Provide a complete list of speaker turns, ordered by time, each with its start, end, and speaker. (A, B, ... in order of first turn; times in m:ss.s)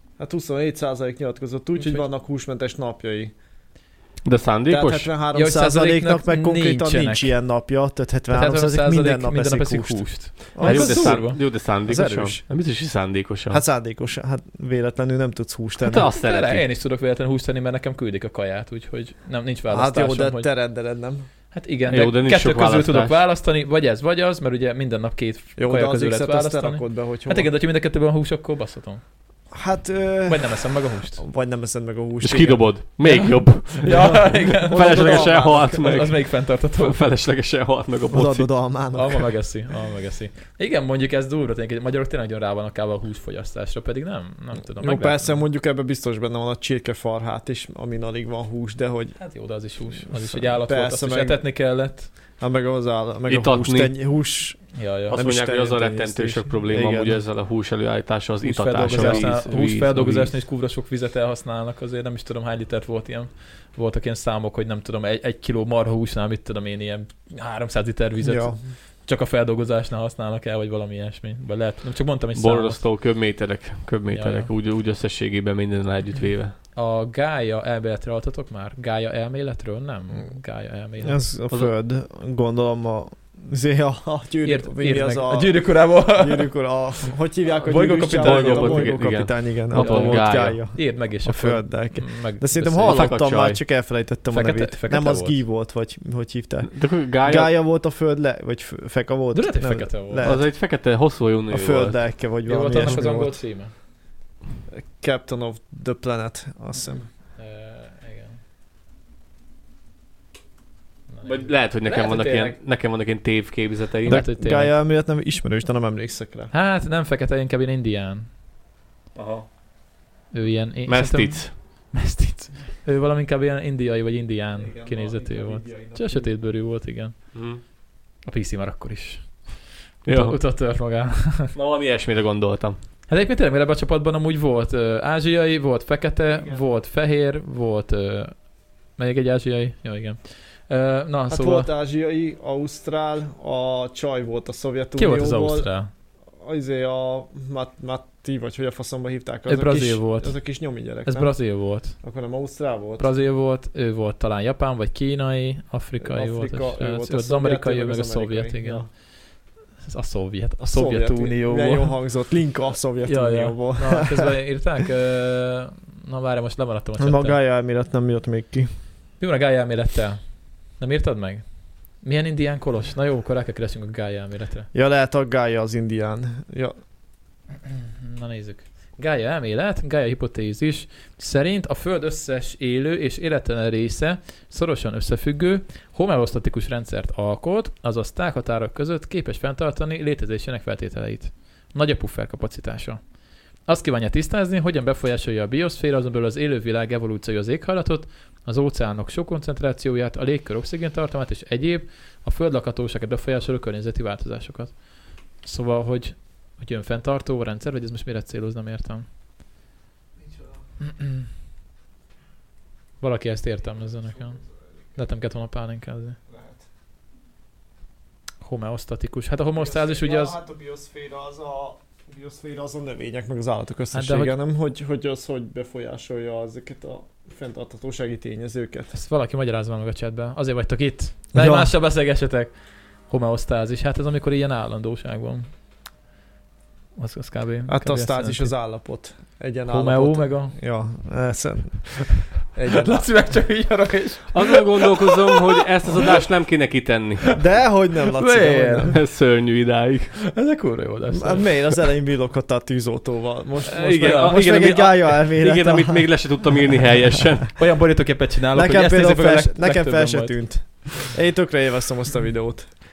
0:00.2-0:03.3 A
0:01.8-0:02.0 B
0:04.3-0:05.1 C
0:04.7-0:12.4 A
0:05.3-0:07.3 B
0:08.3-0:11.4 B
0:10.6-0:13.6 C
0:13.5-0:16.1 A
0:15.9-0:16.6 C
0:15.9-0:20.5 B
0:19.7-0:21.3 A
0:21.5-0:29.0 B
0:21.9-0:23.2 C
0:25.6-0:27.5 A
0:29.5-0:33.0 A
0:30.3-0:31.2 B
0:32.2-0:38.5 C
0:33.1-0:37.0 B
0:33.8-0:36.0 A
0:38.1-0:39.3 A
0:38.9-0:45.4 B
0:44.8-0:49.2 A
0:49.2-0:52.1 B
0:50.1-0:51.4 A
0:52.4-0:57.2 A
0:53.3-0:53.9 C
0:54.8-0:55.2 B
0:55.1-1:00.3 C
0:58.4-1:12.8 B
0:58.7-0:59.4 A
1:08.2-1:08.6 A
1:12.4-1:16.6 C
1:14.1-1:14.5 B
1:16.7-1:21.2 B
1:21.0-1:40.5 A
1:24.4-1:26.5 B
1:27.6-1:29.2 B
1:28.1-1:30.6 C
1:29.7-1:33.1 B
1:32.9-1:33.6 C
1:34.3-1:35.4 B
1:36.7-1:37.5 C
1:39.3-1:40.3 B
1:40.2-1:42.0 C
1:41.5-1:43.4 A
1:42.5-1:43.7 B
1:44.7-1:47.1 A
1:47.4-1:48.4 B
1:51.1-1:52.6 B
1:51.2-1:54.2 C
1:54.1-1:56.5 A
1:54.1-1:54.7 B
1:56.5-1:58.3 B
1:59.2-1:59.5 C
2:00.3-2:07.6 B
2:00.9-2:01.6 C
2:04.6-2:06.4 A
2:07.3-2:07.6 C
2:08.2-2:11.5 B
2:10.0-2:10.4 C
2:11.5-2:12.8 C
2:13.1-2:21.7 B
2:21.3-2:25.7 A
2:25.0-2:25.9 B
2:26.4-2:31.4 A
2:29.5-2:32.0 B
2:31.9-2:33.1 A
2:33.0-2:38.8 B
2:36.0-2:38.9 A
2:39.8-2:42.0 B
2:40.6-2:44.3 A
2:43.1-2:47.4 B
2:47.0-2:48.7 A
2:49.2-2:50.2 B
2:50.8-2:51.4 B
2:52.0-2:54.7 B
2:54.7-2:56.8 A
2:57.7-3:13.0 B
3:13.6-3:29.1 B
3:30.2-3:30.6 A
3:30.8-3:31.3 B
3:33.0-3:34.4 B
3:34.1-3:34.5 A
3:35.0-3:36.2 B
3:36.3-3:36.6 A
3:38.4-3:40.4 B
3:39.6-3:48.9 A
3:43.9-3:44.4 B
3:48.9-3:52.5 B
3:51.3-3:51.7 A
3:53.1-3:55.5 B
3:57.0-3:58.5 B
3:57.7-4:03.4 A
3:59.7-4:00.6 B
4:02.8-4:05.4 B
4:04.3-4:07.3 C
4:07.3-4:09.0 A
4:08.1-4:09.0 B
4:08.9-4:10.1 C
4:10.3-4:11.8 B
4:11.1-4:16.2 A
4:13.7-4:14.7 B
4:14.0-4:17.5 C
4:17.6-4:20.4 B
4:18.5-4:22.7 A